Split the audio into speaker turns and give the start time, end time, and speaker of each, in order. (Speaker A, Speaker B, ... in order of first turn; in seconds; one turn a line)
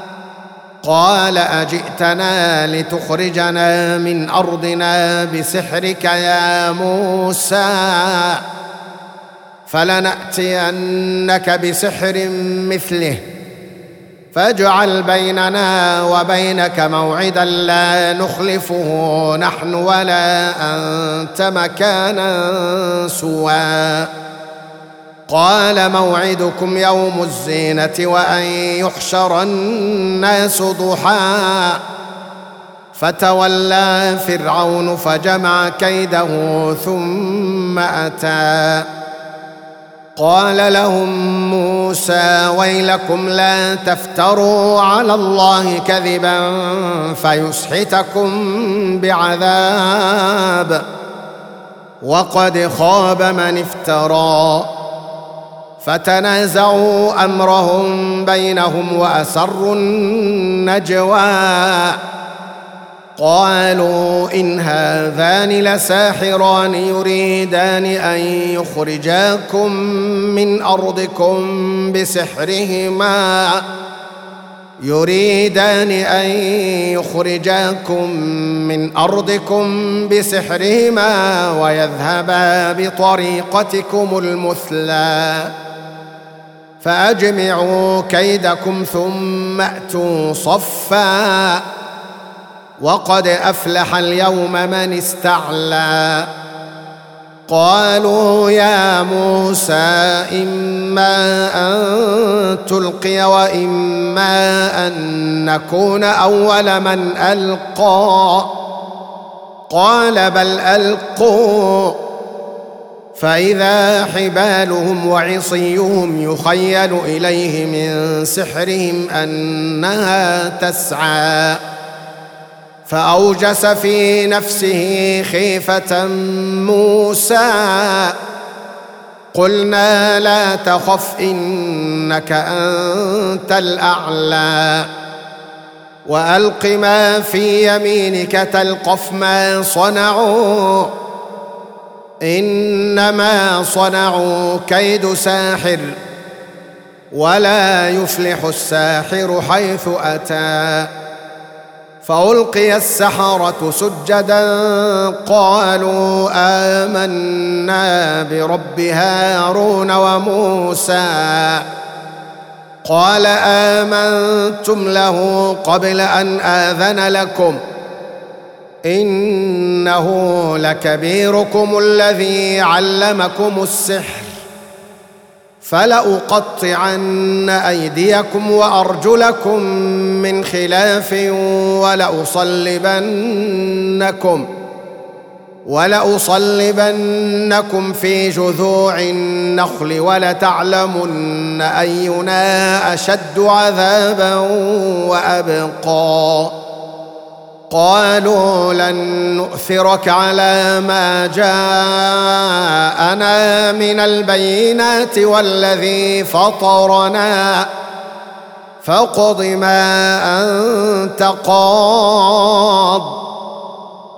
Speaker A: 0.8-8.4
Speaker A: 9.7-13.2
Speaker A: 14.3-24.1
Speaker A: 25.3-31.8
Speaker A: 32.9-38.9
Speaker A: 40.2-50.8
Speaker A: 52.0-54.7
Speaker A: 55.8-62.0
Speaker A: 63.2-73.6
Speaker A: 74.8-85.5
Speaker A: 86.8-91.6
Speaker A: 92.8-96.3
Speaker A: 97.5-108.5
Speaker A: 109.7-112.0
Speaker A: 113.2-121.6
Speaker A: 122.9-128.1
Speaker A: 129.3-134.9
Speaker A: 136.0-140.9
Speaker A: 142.2-146.0
Speaker A: 147.1-150.9
Speaker A: 152.0-161.6
Speaker A: 162.8-167.6
Speaker A: 168.9-174.3
Speaker A: 175.6-184.5
Speaker A: 185.7-196.5
Speaker A: 197.7-207.7
Speaker A: 208.8-213.1